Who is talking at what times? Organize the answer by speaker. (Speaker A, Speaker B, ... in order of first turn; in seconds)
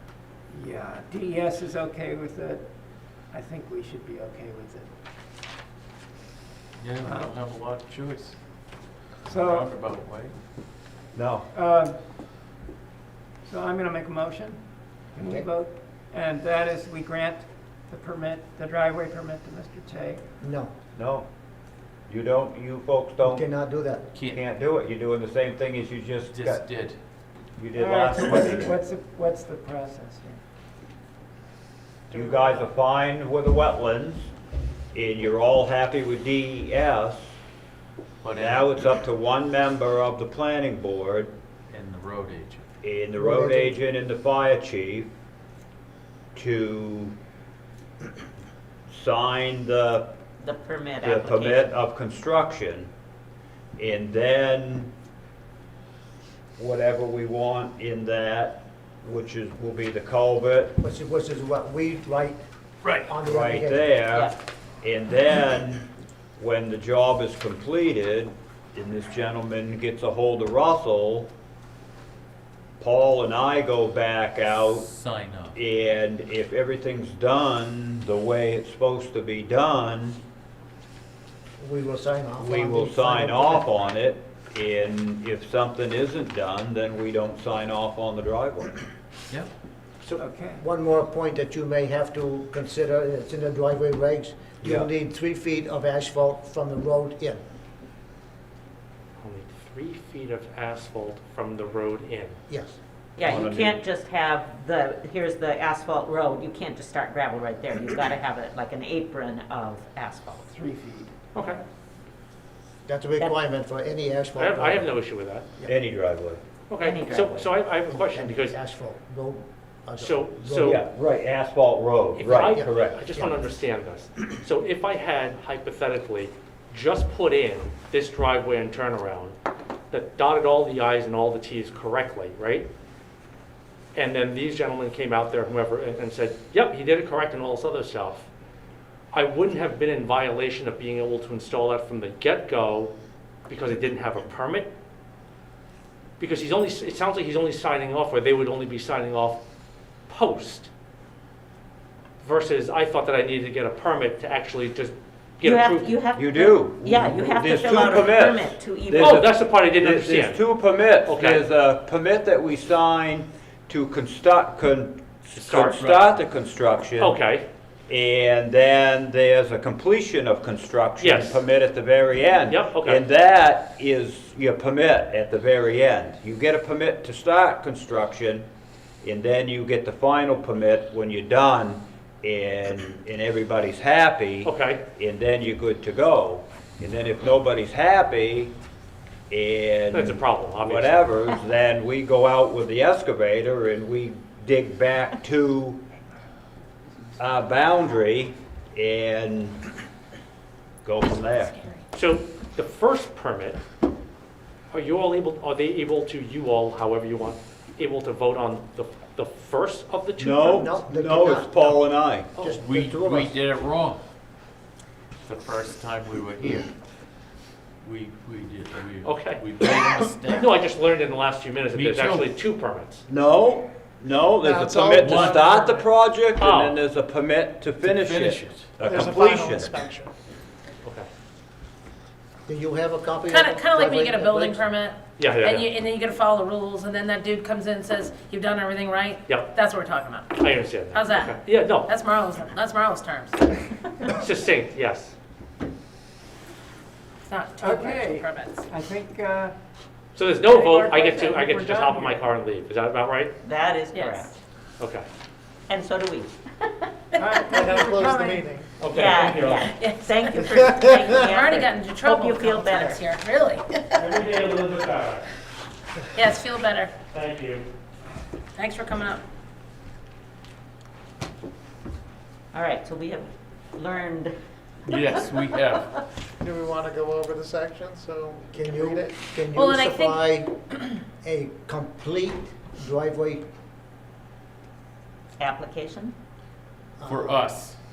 Speaker A: 0.5-4.9, 7.0-7.4, 9.3-9.8, 11.5-12.0, 13.4-20.2, 27.8-30.4, 90.1-90.6, 110.5-111.1, 247.6-249.5, 250.5-252.3, 257.2-258.5
Speaker B: 6.8-10.4, 24.1-24.4, 26.3-27.0, 38.2-38.9, 41.7-42.7, 74.8-75.6, 165.8-166.2, 212.6-214.0, 215.2-216.7, 217.8-220.7, 221.7-222.3, 224.9-225.4, 227.8-228.9, 274.9-275.9, 287.1-287.8
Speaker C: 11.1-11.5, 20.9-21.3, 22.1-23.5, 24.3-26.6, 27.6-28.8, 32.1-34.3, 34.9-37.4, 38.4-41.3, 42.8-45.1, 46.3-47.2, 48.9-50.1, 51.0-52.9, 53.8-54.9, 56.6-60.8, 63.2-71.3, 72.8-74.9, 75.5-80.2, 82.4-88.8, 94.6-94.9, 103.2-103.8, 115.7-116.4, 120.6-123.1, 156.2-167.2, 167.9-178.5, 179.0-188.5, 189.3-195.8, 197.2-199.6, 200.8-201.6, 210.2-212.3, 223.1-229.7
Speaker D: 15.2-15.5, 20.4-20.7, 23.2-24.1, 43.1-43.8, 60.8-62.4, 63.0-63.9, 81.6-83.7, 90.0-97.4, 102.5-102.8, 112.9-115.0, 117.9-120.8, 122.4-123.4, 210.4-211.8, 212.3-213.4, 232.4-234.7, 278.5-283.4, 287.0-287.4
Speaker E: 32.1-32.7, 224.4-225.8, 228.8-230.1, 257.5-258.7, 260.6-261.4, 276.4-279.2
Speaker F: 50.4-51.7, 103.2-110.5, 116.8-117.5, 155.4-159.2, 253.4-254.4, 255.7-256.8, 258.9-263.0, 272.5-274.3, 285.4-286.1
Speaker G: 99.2-102.4, 111.3-111.6, 114.4-115.5, 116.7-118.6, 120.0-120.8, 122.2-129.4, 129.9-132.7, 133.9-138.3, 139.1-142.9, 143.5-144.7, 146.2-149.4, 150.1-150.7, 152.2-155.9, 159.0-160.4, 161.0-161.4, 165.3-165.8, 167.0-167.4, 171.0-171.4, 172.5-173.0, 184.4-184.8, 189.9-191.1, 201.9-203.6, 204.7-210.7, 219.0-219.4, 220.3-223.0, 226.4-226.8, 235.2-235.7, 240.4-241.9, 244.1-245.2, 250.1-253.3, 254.8-255.1, 258.8-259.7, 264.0-265.3, 267.1-267.7
Speaker H: 233.3-243.5, 247.3-248.7, 253.9-254.3, 257.1-257.6, 259.8-260.6, 261.4-264.1, 266.1-266.9, 268.6-269.2, 279.5-280.2